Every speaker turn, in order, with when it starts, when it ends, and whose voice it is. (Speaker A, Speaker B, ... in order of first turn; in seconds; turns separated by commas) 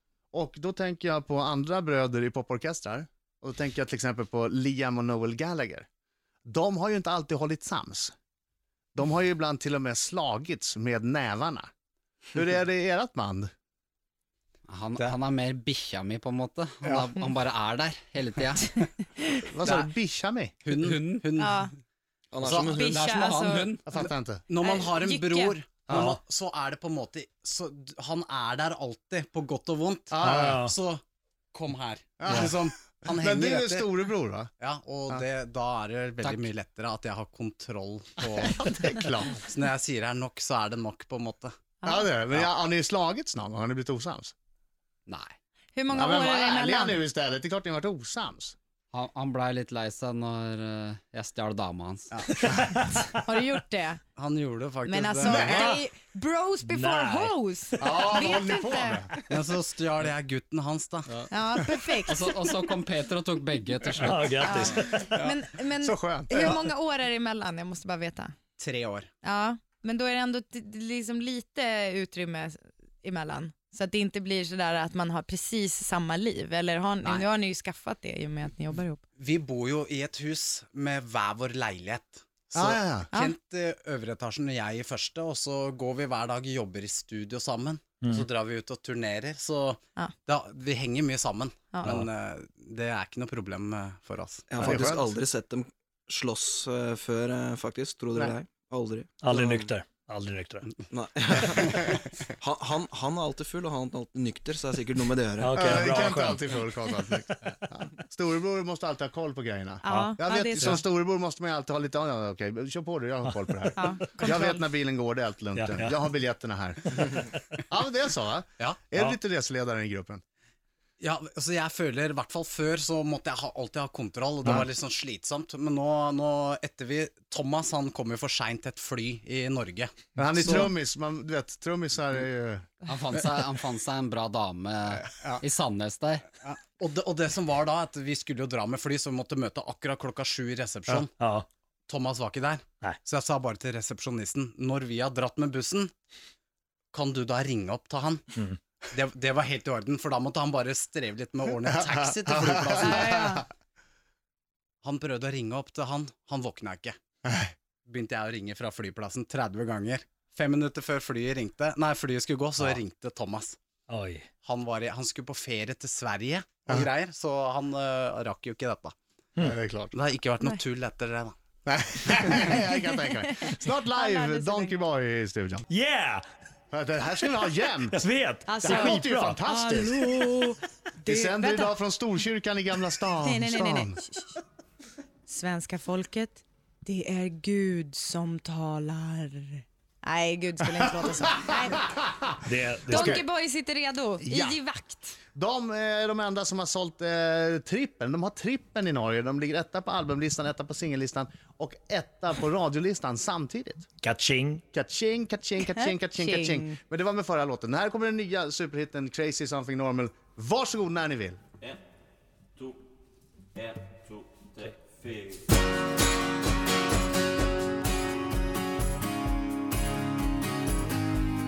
Speaker A: 0.3-5.8, Speaker A: 6.5-8.1, Speaker A: 8.9-11.7, Speaker A: 12.3-13.5, Speaker B: 14.7-18.8, Speaker A: 16.8-17.1, Speaker A: 19.4-20.5, Speaker C: 19.6-19.9, Speaker C: 20.6-21.7, Speaker B: 20.7-21.2, Speaker D: 21.4-21.7, Speaker E: 22.3-23.0, Speaker C: 22.4-22.9, Speaker D: 22.6-23.8, Speaker B: 22.8-23.8, Speaker A: 23.9-24.4, Speaker C: 23.9-31.0, Speaker D: 24.6-25.6, Speaker F: 25.9-26.2, Speaker A: 30.1-30.6, Speaker F: 30.2-30.7, Speaker C: 31.5-33.9, Speaker A: 32.2-34.5, Speaker C: 34.6-38.6, Speaker B: 36.2-36.5, Speaker A: 38.4-39.4, Speaker C: 39.3-41.5, Speaker A: 41.8-44.3, Speaker D: 45.7-47.0, Speaker A: 45.9-48.5, Speaker B: 48.9-52.1, Speaker C: 52.1-52.6, Speaker D: 53.2-54.0, Speaker C: 54.1-55.8, Speaker D: 54.9-59.1, Speaker A: 55.2-55.8, Speaker F: 56.7-57.3, Speaker A: 57.8-59.1, Speaker C: 59.3-61.1, Speaker D: 61.3-62.4, Speaker B: 62.0-64.7, Speaker F: 64.0-64.9, Speaker D: 64.4-68.3, Speaker A: 65.8-66.6, Speaker C: 68.6-69.1, Speaker D: 69.2-79.0, Speaker C: 79.2-94.4, Speaker A: 82.5-83.1, Speaker E: 94.5-99.7, Speaker A: 94.6-95.1, Speaker F: 99.2-100.7, Speaker E: 100.9-105.6, Speaker F: 105.4-106.5, Speaker A: 105.5-120.2, Speaker D: 109.8-110.8, Speaker F: 109.9-110.8, Speaker D: 113.8-114.6, Speaker F: 115.5-116.0, Speaker F: 117.0-117.3, Speaker C: 121.0-130.7, Speaker A: 130.2-132.7, Speaker B: 132.8-136.2, Speaker C: 133.1-133.5, Speaker C: 135.0-135.4, Speaker C: 136.4-141.1, Speaker F: 140.9-141.4, Speaker C: 141.9-145.9, Speaker C: 146.9-148.3, Speaker C: 148.9-153.1, Speaker A: 151.6-153.4, Speaker D: 152.8-153.4, Speaker C: 154.8-156.9, Speaker A: 157.2-157.5, Speaker C: 157.9-163.6, Speaker F: 163.9-164.2, Speaker C: 164.4-168.9, Speaker A: 169.4-169.9, Speaker C: 169.9-171.3, Speaker A: 171.7-175.7, Speaker D: 172.5-174.8, Speaker F: 175.7-176.2, Speaker A: 176.7-178.0, Speaker F: 177.9-179.4, Speaker D: 178.5-181.7, Speaker A: 178.6-180.1, Speaker A: 181.1-184.0, Speaker D: 183.2-184.4, Speaker D: 185.3-191.9, Speaker F: 192.4-193.2, Speaker A: 192.9-193.3, Speaker D: 192.9-195.2, Speaker A: 194.2-194.6, Speaker A: 195.3-203.8, Speaker F: 204.0-204.6, Speaker A: 204.7-211.4, Speaker D: 205.8-206.8